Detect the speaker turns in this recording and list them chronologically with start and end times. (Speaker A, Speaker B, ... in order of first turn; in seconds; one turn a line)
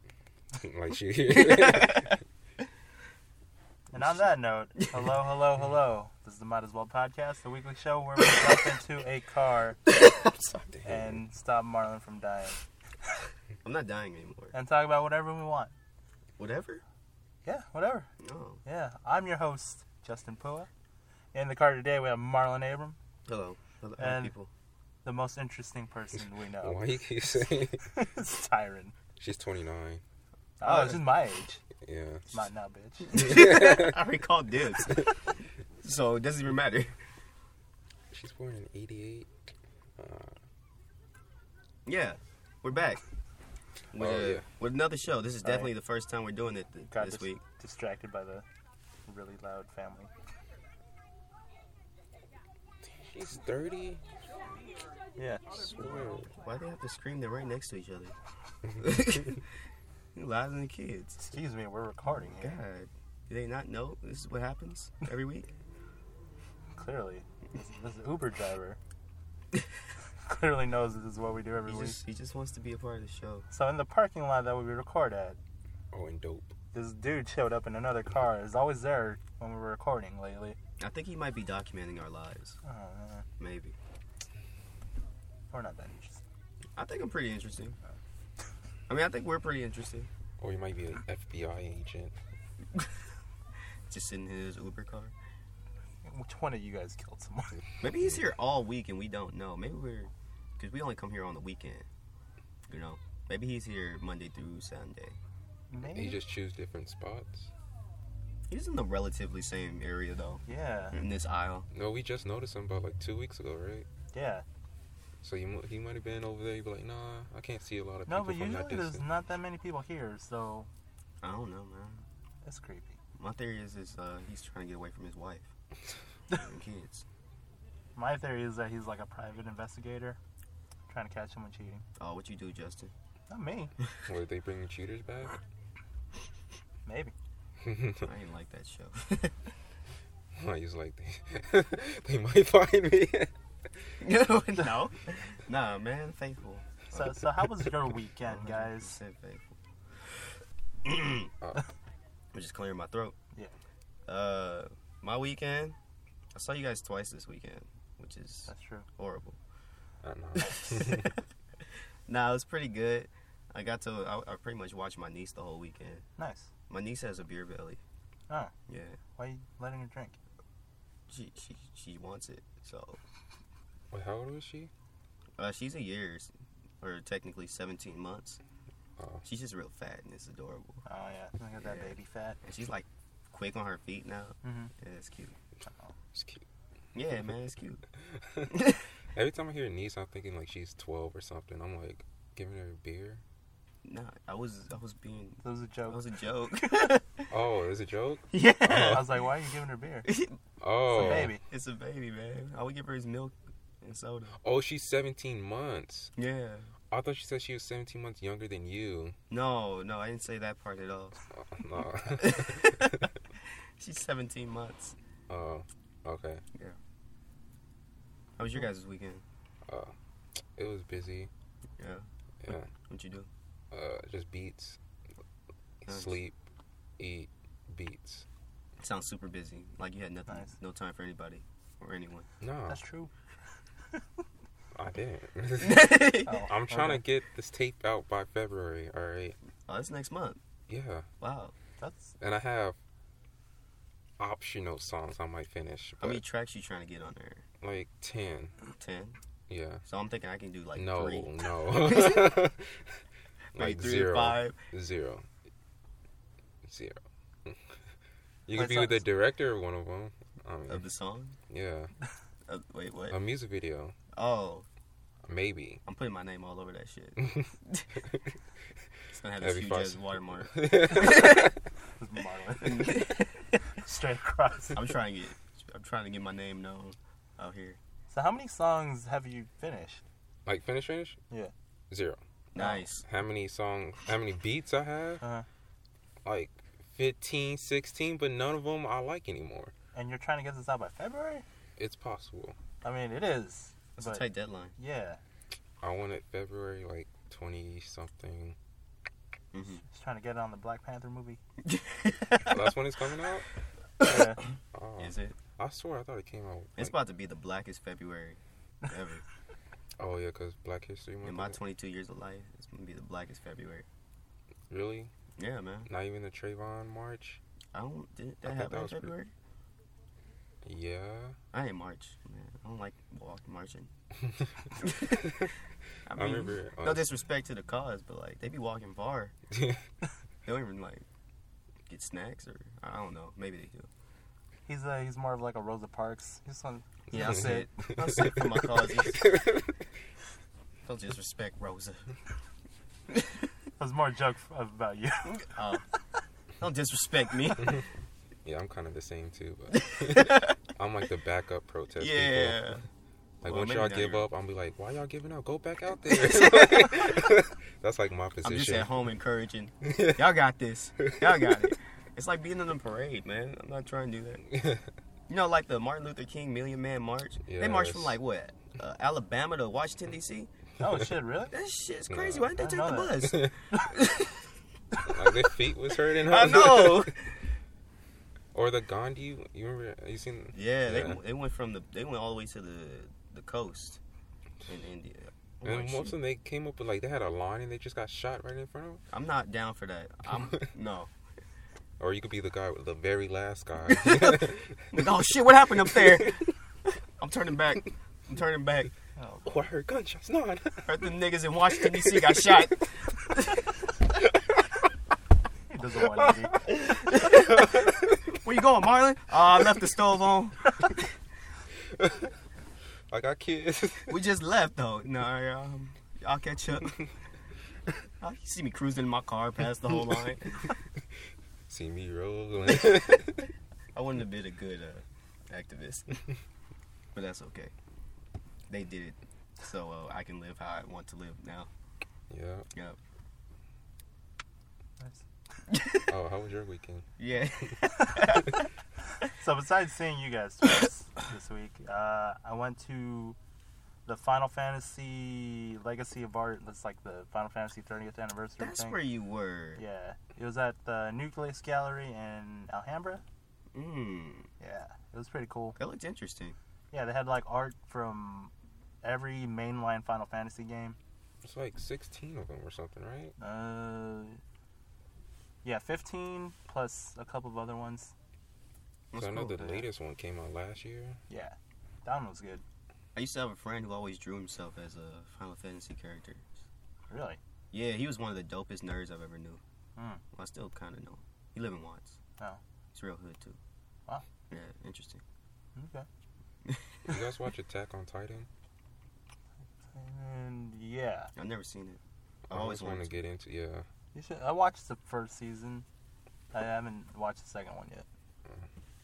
Speaker A: 0.6-2.2
Speaker B: 1.3-2.2
Speaker C: 3.9-9.8
Speaker B: 4.8-5.1
Speaker B: 9.9-10.7
Speaker A: 10.8-11.2
Speaker C: 10.8-12.6
Speaker B: 13.6-14.5
Speaker C: 14.5-15.7
Speaker B: 16.4-16.8
Speaker C: 17.4-18.1
Speaker B: 18.2-18.6
Speaker C: 18.6-20.7
Speaker C: 21.3-23.0
Speaker B: 23.3-24.5
Speaker C: 24.0-24.3
Speaker C: 25.1-26.8
Speaker A: 26.6-27.9
Speaker C: 27.9-28.9
Speaker A: 29.2-30.0
Speaker B: 30.6-31.1
Speaker C: 30.6-31.6
Speaker A: 31.8-32.4
Speaker C: 32.3-33.2
Speaker B: 33.1-35.1
Speaker A: 33.1-34.0
Speaker B: 35.8-37.0
Speaker A: 38.1-39.3
Speaker A: 40.0-40.4
Speaker B: 41.9-43.0
Speaker B: 43.9-47.4
Speaker A: 44.0-44.5
Speaker C: 45.4-45.7
Speaker C: 46.9-48.5
Speaker C: 49.1-50.1
Speaker A: 52.9-54.0
Speaker C: 55.2-56.2
Speaker B: 55.7-58.2
Speaker B: 58.7-59.5
Speaker B: 60.1-61.3
Speaker C: 61.2-62.6
Speaker B: 62.4-65.5
Speaker C: 66.8-68.8
Speaker C: 70.3-72.0
Speaker B: 71.7-73.5
Speaker C: 73.5-75.4
Speaker A: 75.9-76.5
Speaker C: 76.7-80.6
Speaker B: 80.8-82.6
Speaker C: 82.6-83.3
Speaker B: 83.4-83.8
Speaker C: 85.5-86.2
Speaker B: 86.8-87.8
Speaker B: 88.9-90.1
Speaker A: 90.4-92.2
Speaker B: 93.9-95.1
Speaker C: 96.0-97.6
Speaker B: 97.8-101.9
Speaker B: 102.7-105.2
Speaker C: 105.7-106.2
Speaker A: 105.8-107.5
Speaker B: 108.5-111.7
Speaker C: 110.5-111.0
Speaker A: 111.7-113.9
Speaker C: 114.1-114.4
Speaker A: 115.2-119.0
Speaker C: 118.1-120.7
Speaker B: 121.2-122.1
Speaker C: 122.4-123.0
Speaker B: 123.2-125.5
Speaker B: 126.3-127.1
Speaker C: 128.0-130.2
Speaker C: 130.9-131.8
Speaker B: 132.0-132.9
Speaker C: 133.3-133.7
Speaker A: 134.1-135.4
Speaker C: 136.9-137.1
Speaker A: 137.6-138.1
Speaker B: 138.0-139.4
Speaker A: 140.3-143.3
Speaker B: 144.0-147.2
Speaker C: 146.9-149.0
Speaker B: 148.3-149.6
Speaker B: 150.8-151.3
Speaker B: 152.3-153.2
Speaker B: 154.1-155.8
Speaker B: 156.3-159.4
Speaker C: 158.5-158.9
Speaker A: 160.0-161.2
Speaker B: 162.1-166.1
Speaker C: 166.2-166.5
Speaker B: 166.7-167.8
Speaker B: 168.7-169.0
Speaker C: 169.2-170.2
Speaker B: 171.1-173.0
Speaker A: 173.9-174.7
Speaker B: 175.4-176.3
Speaker B: 176.8-178.4
Speaker A: 179.0-179.2
Speaker B: 179.2-180.8
Speaker C: 180.9-182.4
Speaker B: 181.6-185.4
Speaker C: 184.4-184.7
Speaker C: 185.7-185.9
Speaker A: 186.1-186.4
Speaker B: 186.9-187.8
Speaker A: 189.1-193.2
Speaker B: 193.8-197.3
Speaker C: 195.4-196.0
Speaker C: 196.6-196.9
Speaker A: 197.3-199.2
Speaker B: 198.3-199.3
Speaker C: 198.8-200.1
Speaker B: 200.1-200.4
Speaker A: 200.6-201.4
Speaker C: 200.9-201.4
Speaker B: 200.9-204.4
Speaker A: 204.4-206.1
Speaker B: 206.2-206.7
Speaker A: 206.9-209.2
Speaker B: 209.3-211.2
Speaker A: 211.3-213.1
Speaker B: 212.2-213.1
Speaker B: 213.8-215.0
Speaker A: 215.3-216.4
Speaker B: 218.4-219.2
Speaker A: 219.7-221.3
Speaker B: 221.8-222.1
Speaker A: 222.4-222.7
Speaker B: 222.7-223.3
Speaker A: 223.7-224.8
Speaker A: 225.8-226.4
Speaker B: 225.9-226.2
Speaker A: 227.0-228.2
Speaker B: 228.8-232.3
Speaker A: 232.4-232.8
Speaker C: 232.7-233.1
Speaker A: 234.8-239.4
Speaker B: 235.6-236.3
Speaker C: 236.2-237.0
Speaker B: 239.7-240.4
Speaker A: 240.7-241.1
Speaker B: 241.2-241.5
Speaker C: 241.8-242.1
Speaker A: 242.2-242.8
Speaker A: 244.2-246.2
Speaker B: 246.0-247.4
Speaker A: 247.6-248.5
Speaker B: 248.8-249.2
Speaker A: 249.5-249.8
Speaker B: 249.9-252.4
Speaker A: 250.8-252.8
Speaker B: 253.6-254.6
Speaker A: 253.6-255.2
Speaker A: 256.6-257.6
Speaker A: 258.5-260.9
Speaker C: 258.5-259.1
Speaker B: 260.7-261.4
Speaker A: 261.5-261.9
Speaker B: 262.5-263.2
Speaker A: 263.1-263.9
Speaker B: 264.1-264.7
Speaker A: 265.3-265.8
Speaker B: 265.9-267.9
Speaker B: 269.1-271.4
Speaker A: 269.4-271.4
Speaker C: 272.0-274.9
Speaker B: 272.6-273.6
Speaker B: 274.7-277.8
Speaker C: 278.1-280.0
Speaker A: 280.5-281.2
Speaker A: 281.9-285.2
Speaker B: 282.5-283.1
Speaker C: 285.2-285.5
Speaker A: 286.2-289.7
Speaker C: 289.9-291.4
Speaker A: 291.8-292.6
Speaker C: 292.8-294.2
Speaker B: 294.0-294.7
Speaker C: 294.8-295.2
Speaker A: 295.8-298.6
Speaker B: 299.5-299.8
Speaker C: 299.8-301.4
Speaker B: 301.6-302.5
Speaker A: 302.5-303.5
Speaker C: 304.0-304.4
Speaker A: 304.7-306.9
Speaker B: 305.0-305.4
Speaker B: 306.8-309.2
Speaker A: 310.0-311.6
Speaker B: 311.2-313.9
Speaker A: 314.7-315.1
Speaker B: 315.4-315.9
Speaker A: 315.9-317.4
Speaker B: 317.7-319.3
Speaker A: 318.4-319.1
Speaker A: 320.6-321.4
Speaker B: 321.5-323.9
Speaker B: 324.8-325.4
Speaker B: 326.1-329.3
Speaker A: 326.1-327.1
Speaker A: 329.5-329.8
Speaker B: 330.4-331.1
Speaker B: 331.9-333.9
Speaker C: 334.7-337.7
Speaker B: 337.1-339.3
Speaker A: 337.1-339.7
Speaker B: 340.9-342.1
Speaker C: 343.8-345.8
Speaker B: 345.2-345.8
Speaker B: 346.6-347.7
Speaker A: 348.4-352.8
Speaker B: 349.8-350.6
Speaker B: 352.0-352.8
Speaker A: 353.4-359.1
Speaker B: 353.4-354.2
Speaker B: 356.1-357.4
Speaker B: 358.4-364.4
Speaker A: 359.8-360.2
Speaker A: 361.1-361.5
Speaker B: 365.3-370.5
Speaker A: 367.4-368.2
Speaker C: 370.8-371.5
Speaker B: 371.5-374.3
Speaker A: 372.1-372.6
Speaker C: 372.6-373.9
Speaker A: 373.2-373.5
Speaker A: 375.0-377.1
Speaker B: 376.1-377.4
Speaker A: 378.5-381.2
Speaker B: 380.5-384.0
Speaker B: 384.7-386.2
Speaker A: 385.6-389.0
Speaker B: 389.1-391.1
Speaker A: 392.0-394.9
Speaker B: 393.9-396.5
Speaker B: 397.2-398.9
Speaker C: 399.2-399.7
Speaker A: 399.4-401.1
Speaker B: 400.8-403.7
Speaker A: 401.9-402.6
Speaker C: 405.7-406.7
Speaker B: 406.7-411.0
Speaker A: 412.0-412.3
Speaker A: 413.1-414.2
Speaker B: 414.1-417.0
Speaker B: 418.2-420.7
Speaker A: 421.7-423.5
Speaker B: 423.9-426.2
Speaker B: 427.1-427.7
Speaker B: 428.7-431.7
Speaker A: 432.3-432.7
Speaker B: 435.7-436.0
Speaker A: 436.0-437.1
Speaker B: 437.2-438.6
Speaker C: 439.2-443.4
Speaker C: 444.1-449.0
Speaker B: 448.6-449.8
Speaker C: 449.8-453.2
Speaker B: 453.7-454.5
Speaker C: 454.6-455.8
Speaker B: 455.8-456.6
Speaker C: 456.9-458.5
Speaker C: 459.0-461.0
Speaker A: 461.4-463.4
Speaker C: 463.4-464.4
Speaker C: 465.6-468.1
Speaker B: 469.1-469.9
Speaker A: 469.1-471.2
Speaker C: 471.3-472.6
Speaker B: 473.1-476.6
Speaker C: 477.1-477.4
Speaker B: 477.7-479.6
Speaker C: 480.0-480.2
Speaker B: 480.3-482.2
Speaker B: 482.9-483.6
Speaker B: 484.5-485.2
Speaker C: 485.8-486.1
Speaker B: 486.6-487.1
Speaker A: 487.1-488.5
Speaker C: 489.9-491.3
Speaker B: 491.4-493.1
Speaker A: 492.5-493.9
Speaker C: 494.1-495.9
Speaker C: 496.5-498.1